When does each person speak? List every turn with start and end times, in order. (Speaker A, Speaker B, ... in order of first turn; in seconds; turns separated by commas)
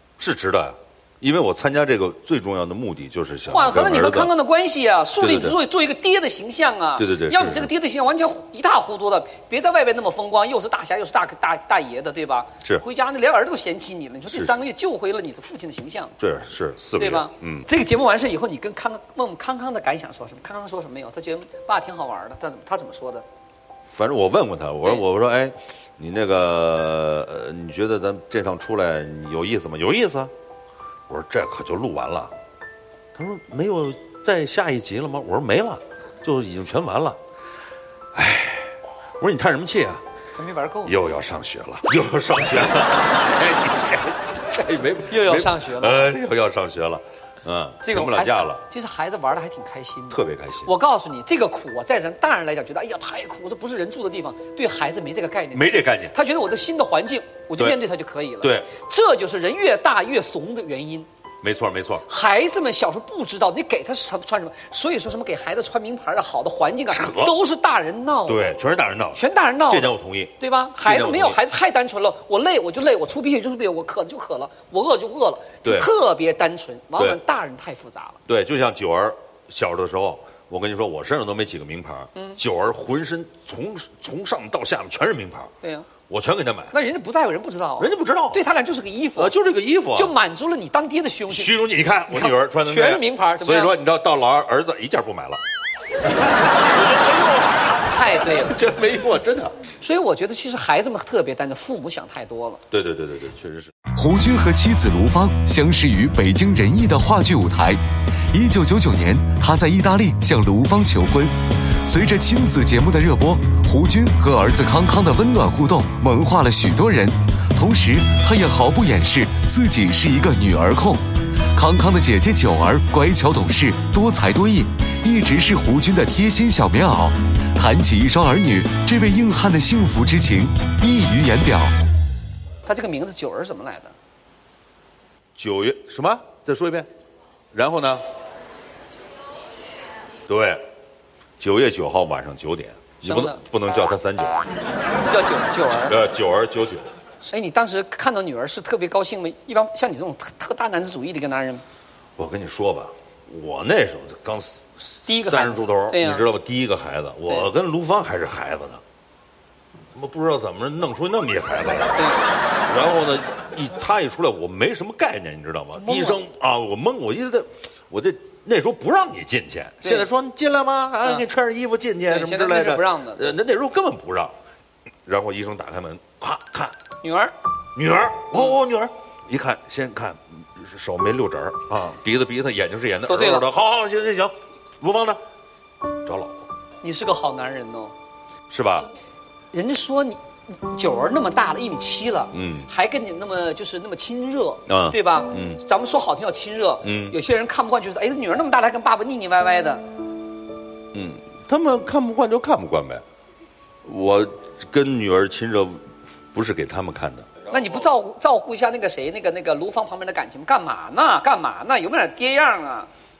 Speaker A: 0.2-4.3, Speaker B: 3.5-16.1, Speaker A: 5.2-5.6, Speaker A: 7.0-7.7, Speaker A: 14.3-14.5, Speaker A: 16.2-17.7, Speaker B: 16.9-23.2, Speaker A: 23.9-30.3, Speaker A: 31.1-32.3, Speaker A: 33.1-37.2, Speaker A: 38.1-40.0, Speaker B: 40.4-41.0, Speaker A: 40.8-48.6, Speaker B: 45.1-46.1, Speaker B: 47.8-61.1, Speaker A: 50.1-50.7, Speaker A: 55.5-56.1, Speaker A: 58.4-58.7, Speaker A: 61.4-62.0, Speaker B: 62.0-68.5, Speaker A: 66.9-67.3, Speaker A: 68.2-71.4, Speaker B: 69.1-78.2, Speaker A: 75.6-75.9, Speaker A: 78.2-85.5, Speaker B: 85.6-85.9, Speaker A: 86.1-86.7, Speaker B: 86.7-89.3, Speaker A: 87.8-88.4, Speaker A: 89.2-90.1, Speaker B: 89.9-91.5, Speaker A: 91.3-95.4, Speaker B: 92.1-93.7, Speaker B: 97.8-98.6, Speaker A: 98.4-99.5, Speaker B: 99.8-102.6, Speaker A: 102.7-103.7, Speaker C: 103.9-131.7, Speaker B: 132.7-133.9, Speaker A: 135.4-136.9, Speaker A: 137.5-138.0, Speaker A: 140.3-140.6, Speaker A: 141.4-144.4, Speaker B: 143.0-143.4, Speaker B: 145.1-146.0, Speaker A: 145.7-146.9, Speaker B: 147.2-151.6, Speaker A: 152.2-158.8, Speaker B: 155.1-156.2, Speaker A: 159.9-162.0, Speaker B: 161.9-162.3, Speaker A: 162.7-174.3, Speaker B: 165.7-166.2, Speaker B: 169.8-170.1, Speaker B: 172.0-173.3, Speaker A: 175.1-176.7, Speaker B: 177.0-177.3, Speaker A: 177.7-185.2, Speaker B: 183.1-183.5, Speaker A: 186.0-186.4, Speaker B: 186.8-187.9, Speaker A: 188.5-188.9, Speaker B: 189.5-199.8, Speaker A: 192.3-192.7, Speaker A: 194.7-195.6, Speaker A: 196.8-197.2, Speaker A: 200.9-203.0, Speaker A: 203.8-207.3, Speaker B: 207.5-212.9